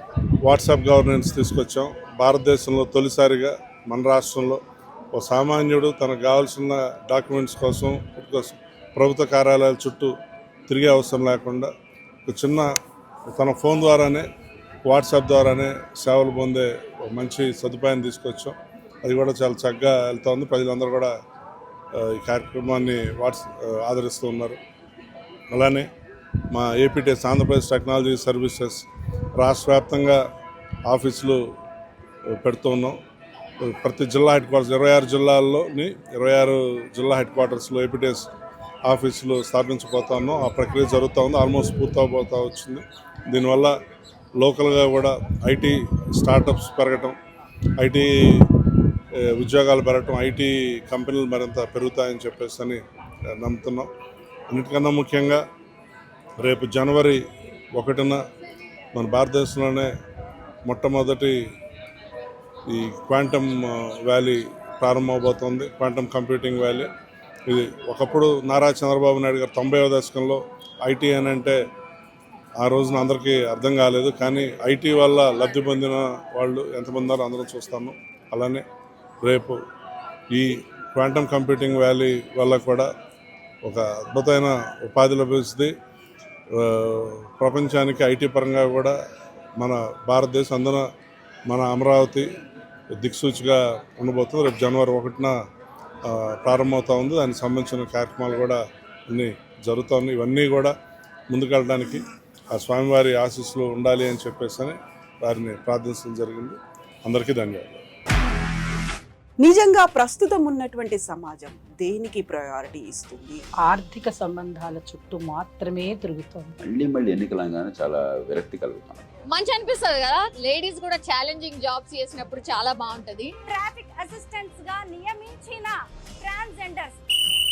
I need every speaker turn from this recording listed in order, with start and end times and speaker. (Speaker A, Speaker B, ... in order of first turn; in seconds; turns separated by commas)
Speaker A: 0.4-4.6, Speaker A: 5.1-10.1, Speaker A: 10.7-11.7, Speaker A: 12.2-12.7, Speaker A: 13.3-14.3, Speaker A: 14.8-21.1, Speaker A: 21.9-24.6, Speaker A: 25.5-25.9, Speaker A: 26.5-28.9, Speaker A: 29.4-30.2, Speaker A: 30.9-31.4, Speaker A: 32.3-33.0, Speaker A: 33.6-38.3, Speaker A: 38.8-43.7, Speaker A: 44.4-47.1, Speaker A: 47.8-48.5, Speaker A: 49.1-53.9, Speaker A: 54.5-55.4, Speaker A: 56.4-57.2, Speaker A: 57.7-58.2, Speaker A: 58.9-59.9, Speaker A: 60.6-61.4, Speaker A: 62.7-66.9, Speaker A: 67.5-71.6, Speaker A: 72.6-78.6, Speaker A: 79.2-79.6, Speaker A: 80.3-82.9, Speaker A: 83.6-85.7, Speaker A: 86.5-88.9, Speaker A: 89.6-90.8, Speaker A: 91.5-92.3, Speaker A: 92.9-95.3, Speaker A: 96.0-100.7, Speaker A: 101.3-107.8, Speaker B: 109.4-113.4, Speaker C: 113.6-116.5, Speaker D: 116.6-119.0, Speaker E: 119.3-123.3, Speaker F: 123.5-127.0